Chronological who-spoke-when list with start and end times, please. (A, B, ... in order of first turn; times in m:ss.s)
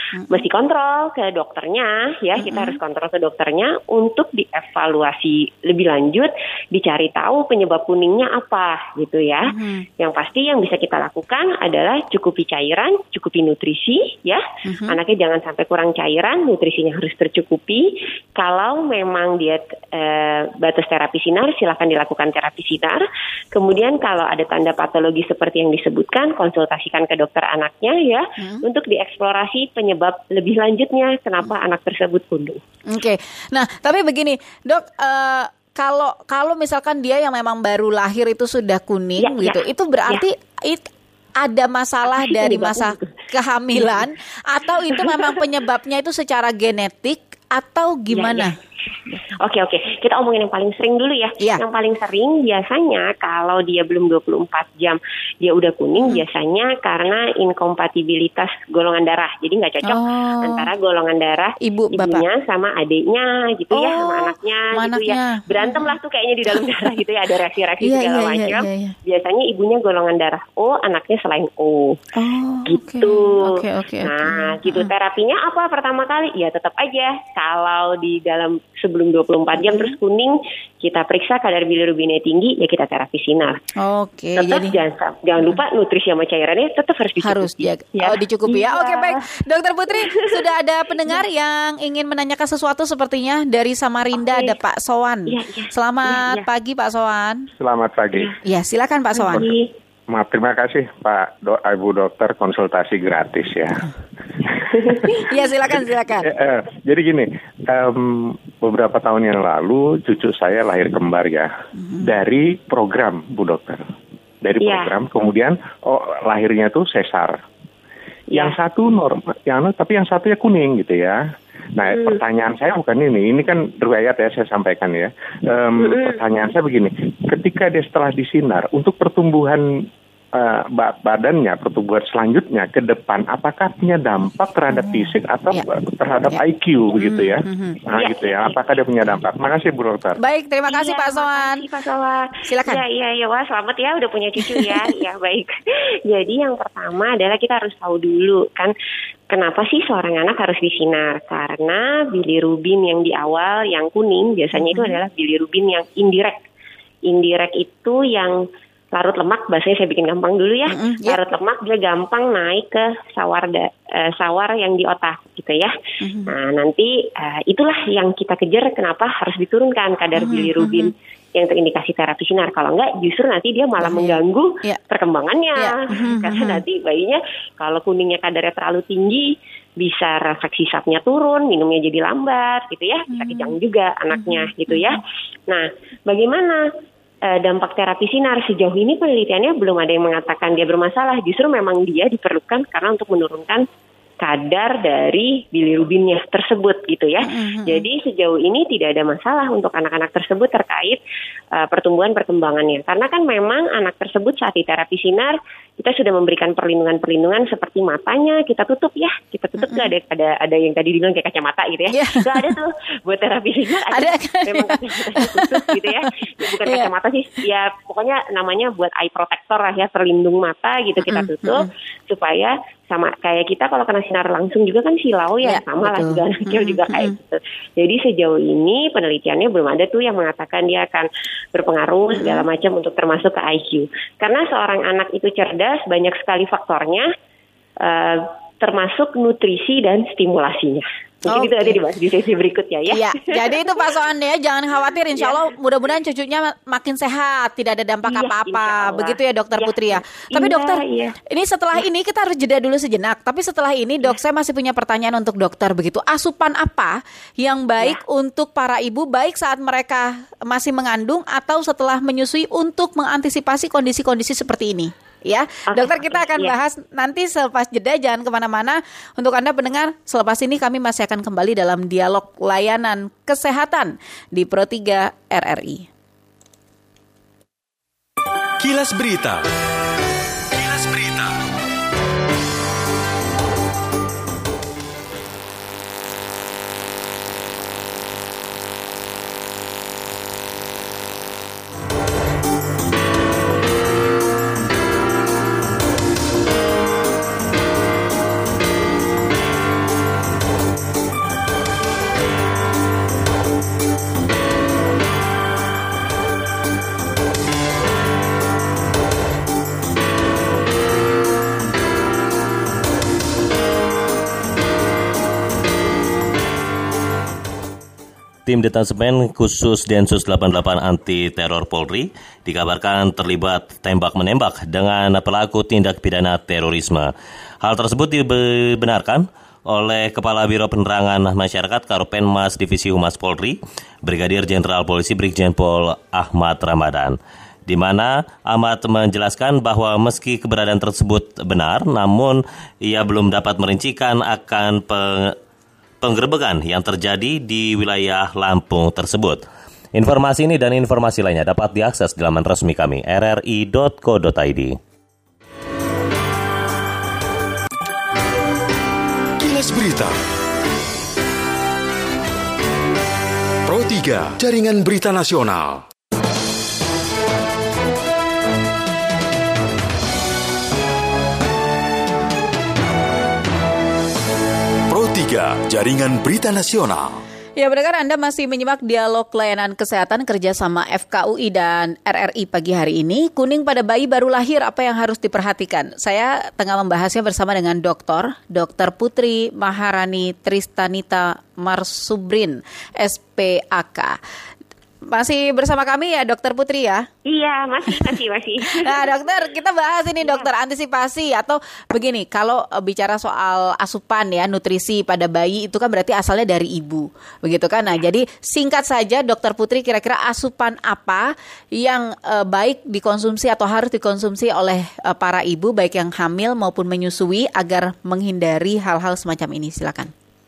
0:00.1-0:00.4 A
0:00.3-0:09.4 B
0:02.4-0:02.8 A
0:09.5-0:09.8 A
0:10.0-0:32.6 B
0:14.6-0:15.0 A
0:32.9-0:40.9 A
0:39.2-0:40.2 B
0:41.4-0:48.5 A
0:42.0-0:43.1 B
0:48.1-0:48.5 B
0:49.4-1:12.0 B
0:59.8-1:00.7 A
1:01.6-1:02.2 A
1:03.7-1:06.0 A
1:06.5-1:07.0 A
1:07.8-1:09.0 A
1:12.2-1:14.9 A
1:12.7-1:13.5 B
1:14.0-1:23.6 B
1:19.6-1:19.9 A
1:23.8-1:24.8 A
1:24.4-1:29.2 B
1:27.2-1:37.5 A
1:34.2-1:34.6 B
1:35.3-1:36.5 B
1:37.6-1:38.3 C
1:38.4-1:39.5 A
1:39.2-1:39.7 B
1:40.1-1:43.9 C
1:45.1-1:46.3 A
1:46.2-1:53.8 C
1:54.4-1:57.4 C
1:54.6-1:54.9 B
1:58.3-2:01.2 C
2:01.8-2:09.6 C
2:01.9-2:02.2 B
2:05.8-2:06.2 B
2:10.4-2:20.2 C
2:14.7-2:15.6 A
2:17.0-2:17.8 A
2:17.9-2:18.5 B
2:20.2-2:21.6 A
2:20.7-2:25.5 B
2:22.5-2:22.8 A
2:24.4-2:24.9 A
2:26.1-2:28.7 B
2:29.3-2:36.4 B
2:34.5-2:35.0 A
2:37.1-2:38.4 B
2:38.9-2:45.7 B
2:40.7-2:41.2 A
2:46.0-2:46.3 A
2:46.3-2:59.3 B
2:50.2-2:50.9 A
2:53.8-2:54.8 A
2:55.6-2:56.6 A
2:59.8-3:06.6 B
3:03.1-3:03.6 A
3:04.1-3:05.0 A
3:07.3-3:13.6 B
3:14.2-3:21.0 B
3:17.2-3:17.9 A
3:21.6-3:57.1 B
3:29.6-3:29.9 A
3:31.9-3:32.5 A
3:33.9-3:36.1 A
3:36.6-3:36.9 A
3:41.1-3:41.7 A
3:45.4-3:47.1 A
3:52.1-3:52.5 A
3:57.8-4:03.7 B
4:01.3-4:01.8 A
4:02.9-4:35.9 A
4:05.2-4:05.4 B
4:08.0-4:11.1 B
4:25.7-4:26.6 B
4:38.6-4:39.5 D
4:40.5-4:41.4 D
5:18.5-5:45.4 E
5:46.0-5:49.4 E
5:49.9-5:54.8 E
5:59.4-6:00.2 D
6:03.6-6:05.8 D
6:14.9-6:17.2 D
6:17.6-6:34.2 A
6:35.1-6:37.1 A
6:37.3-6:39.0 B
6:38.7-7:00.1 A